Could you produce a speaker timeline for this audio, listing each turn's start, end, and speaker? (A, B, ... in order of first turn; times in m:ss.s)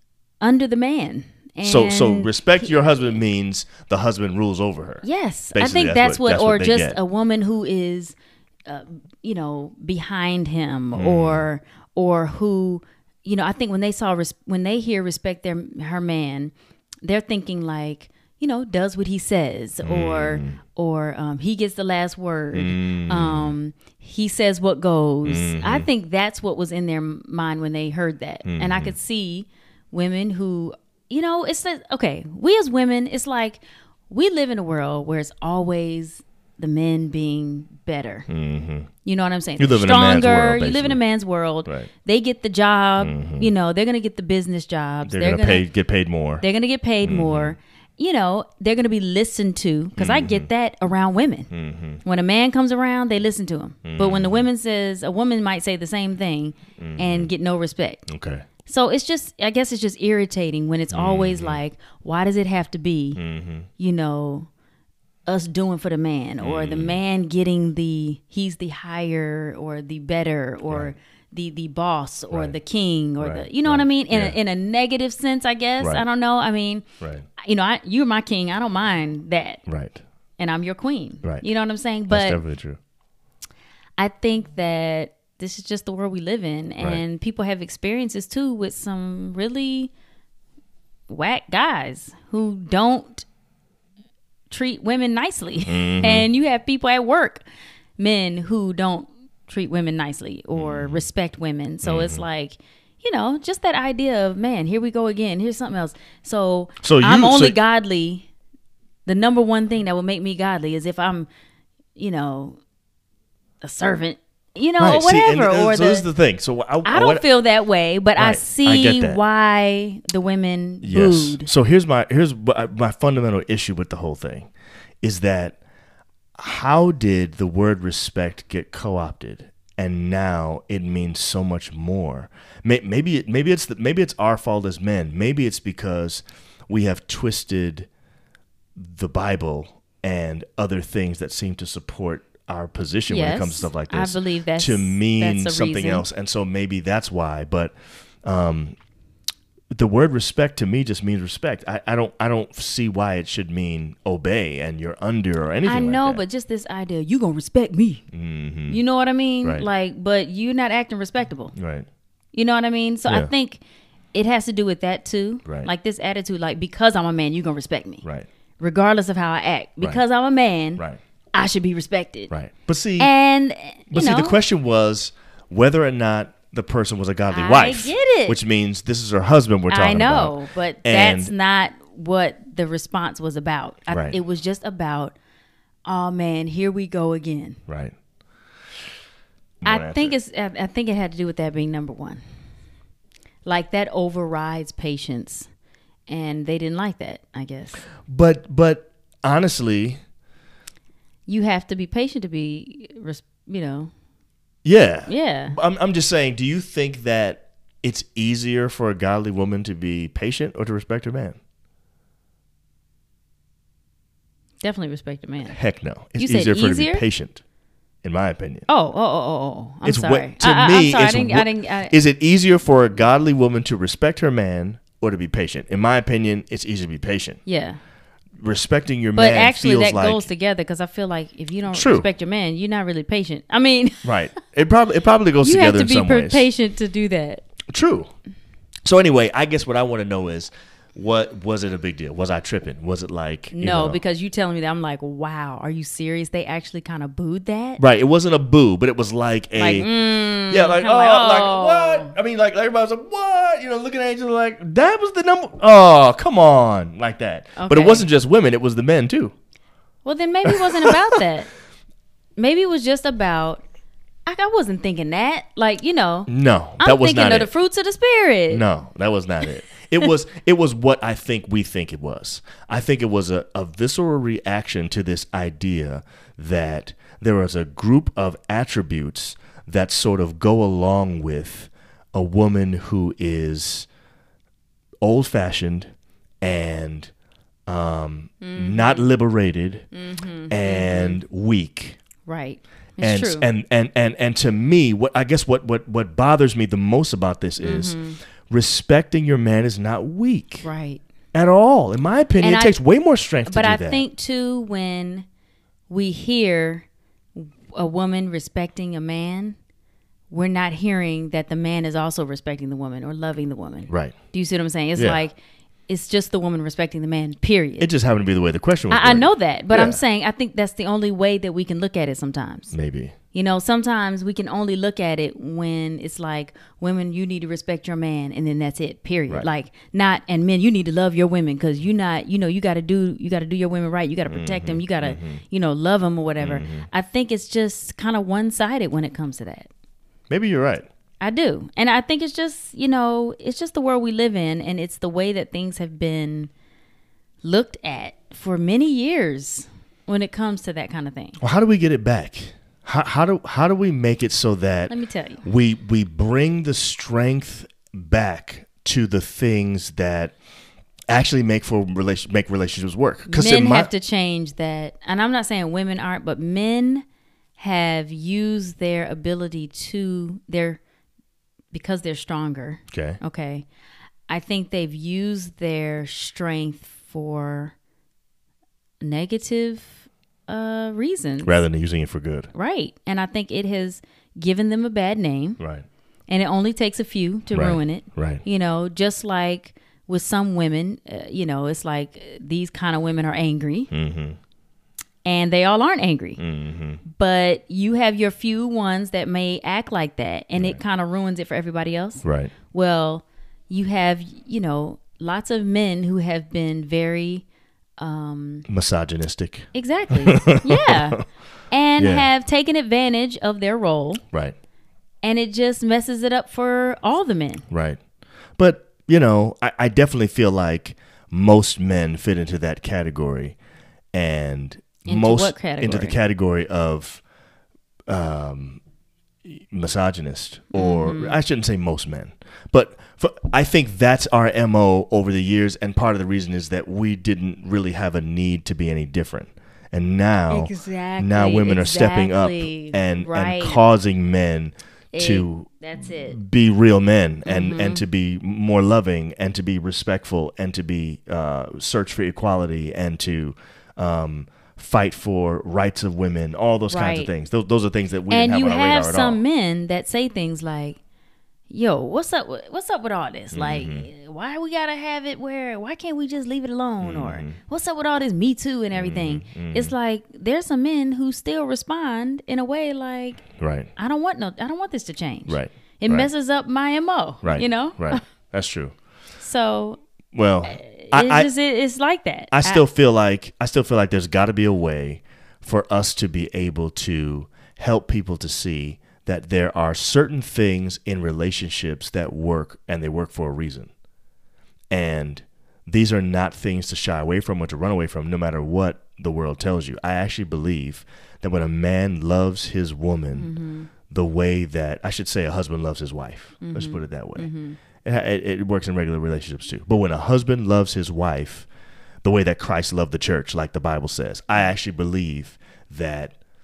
0:00.4-0:02.7 A
0:01.6-0:07.0 B
0:05.0-0:38.3 A
0:10.9-0:11.4 B
0:19.8-0:20.6 B
0:22.5-0:23.5 B
0:25.2-0:25.9 B
0:28.4-0:28.9 B
0:38.3-0:38.9 B
0:39.0-0:45.6 A
0:39.6-0:41.0 B
0:41.6-0:41.9 B
0:43.0-0:43.5 B
0:45.0-0:46.4 B
0:46.4-0:51.5 A
0:47.0-0:47.6 B
0:50.0-0:50.5 B
0:51.5-0:52.0 B
0:52.0-0:58.0 A
0:53.8-0:54.4 B
0:56.8-0:57.3 B
0:58.1-0:58.5 B
0:58.6-1:03.2 A
1:00.9-1:01.6 B
1:03.1-1:03.7 B
1:03.8-1:04.5 A
1:05.2-1:16.8 A
1:06.4-1:07.0 B
1:10.7-1:10.9 B
1:13.2-1:14.4 B
1:17.0-1:17.3 B
1:17.4-1:19.6 A
1:19.7-1:20.0 B
1:20.4-1:22.4 A
1:22.1-1:22.8 B
1:24.0-1:29.9 A
1:31.1-1:33.2 A
1:34.5-1:37.4 A
1:35.6-1:36.3 B
1:38.0-1:48.3 A
1:40.5-1:41.0 B
1:41.8-1:42.2 B
1:46.8-1:47.6 B
1:49.0-1:51.3 A
1:52.0-1:52.6 A
1:53.6-1:56.1 A
1:54.8-1:57.2 B
1:56.8-2:01.5 A
1:58.2-1:59.2 B
2:00.8-2:04.5 B
2:05.0-2:05.6 B
2:06.4-2:17.9 B
2:18.8-2:27.7 B
2:23.1-2:26.0 A
2:28.2-2:28.8 B
2:29.7-2:36.2 B
2:35.6-2:38.0 A
2:38.1-2:38.8 B
2:38.7-2:41.5 A
2:41.5-2:41.9 B
2:42.3-2:43.6 A
2:44.1-2:48.0 A
2:45.4-2:45.7 B
2:48.6-2:50.8 A
2:51.3-2:52.3 A
2:52.3-2:53.1 B
2:53.0-2:54.4 A
2:53.9-3:01.3 B
2:57.3-2:58.4 A
2:59.7-3:05.1 A
3:03.9-3:04.2 B
3:05.8-3:07.6 A
3:07.7-3:07.9 B
3:09.6-3:10.1 B
3:09.6-3:12.2 A
3:13.4-3:15.5 A
3:16.1-3:17.8 A
3:18.0-3:20.0 B
3:21.3-3:23.9 A
3:24.6-3:31.4 B
3:25.1-3:25.6 A
3:34.6-3:35.6 A
3:35.5-3:37.4 B
3:36.2-3:37.0 A
3:38.0-3:38.7 B
3:38.7-3:42.0 A
3:39.8-3:47.4 B
3:47.4-3:47.8 A
3:48.4-3:50.3 B
3:49.2-3:54.1 A
3:51.7-3:52.1 B
3:54.0-3:56.4 B
3:55.4-3:57.4 A
3:57.7-3:58.1 B
3:58.8-4:04.0 B
4:03.5-4:07.8 A
4:07.8-4:19.3 B
4:09.6-4:12.1 A
4:17.6-4:18.0 A
4:20.0-4:21.5 A
4:20.4-4:21.1 B
4:22.4-4:23.6 A
4:24.2-4:28.6 A
4:26.3-4:27.5 B
4:28.5-4:43.9 B
4:45.0-4:47.1 B
4:47.7-4:49.9 B
4:48.4-4:49.1 A
4:49.9-4:51.2 A
4:50.5-4:52.0 B
4:52.2-4:53.5 A
4:53.0-4:58.0 B
4:57.6-4:58.2 A
4:58.5-5:00.7 B
5:00.6-5:01.0 A
5:01.3-5:04.0 B
5:02.4-5:02.8 A
5:03.4-5:05.2 A
5:05.9-5:09.6 A
5:10.3-5:15.4 A
5:13.9-5:14.1 B
5:15.0-5:15.2 B
5:15.9-5:17.9 A
5:17.8-5:20.0 B
5:18.9-5:22.7 A
5:22.7-5:23.1 B
5:23.3-5:39.7 A
5:34.3-5:35.4 B
5:36.4-5:36.9 B
5:40.3-5:40.9 B
5:41.2-5:46.5 A
5:47.4-5:51.4 A
5:51.4-6:00.3 B
5:54.9-5:55.4 A
6:01.1-6:03.9 B
6:03.3-6:07.0 A
6:07.6-6:10.8 A
6:11.7-6:13.6 A
6:12.9-6:13.2 B
6:14.3-6:17.7 A
6:19.0-6:21.5 A
6:21.4-6:22.5 B
6:22.5-6:25.6 A
6:25.6-6:25.8 B
6:26.3-6:33.9 A
6:27.5-6:28.4 B
6:33.9-6:34.4 B
6:35.2-6:36.4 A
6:36.4-6:37.0 B
6:37.0-6:47.4 A
6:42.2-6:42.5 B
6:48.0-6:48.6 A
6:48.7-6:51.2 B
6:49.7-6:54.2 A
6:52.0-6:52.3 B
6:55.2-6:57.6 A
6:57.7-6:58.0 B
6:58.6-7:03.6 B
7:04.1-7:07.2 B
7:05.0-7:06.2 A
7:08.1-7:08.8 B
7:09.4-7:25.7 B
7:10.7-7:11.4 A
7:20.5-7:23.8 A
7:25.1-7:26.4 A
7:26.2-7:39.4 B
7:27.4-7:28.0 A
7:36.9-7:37.3 A
7:38.3-7:41.0 A
7:41.7-7:58.2 A
7:43.5-7:44.1 B
7:47.0-7:47.6 B
7:48.9-7:49.9 B
7:53.6-7:53.9 B
7:55.5-7:56.3 B
7:57.4-7:58.9 B
7:59.4-8:00.0 A
8:00.3-8:01.5 B
8:00.7-8:02.8 A
8:02.5-8:13.9 B
8:14.9-8:23.5 B
8:23.4-8:23.9 A
8:24.1-8:27.5 B
8:26.6-8:27.8 A
8:28.0-8:31.7 B
8:32.2-8:36.3 B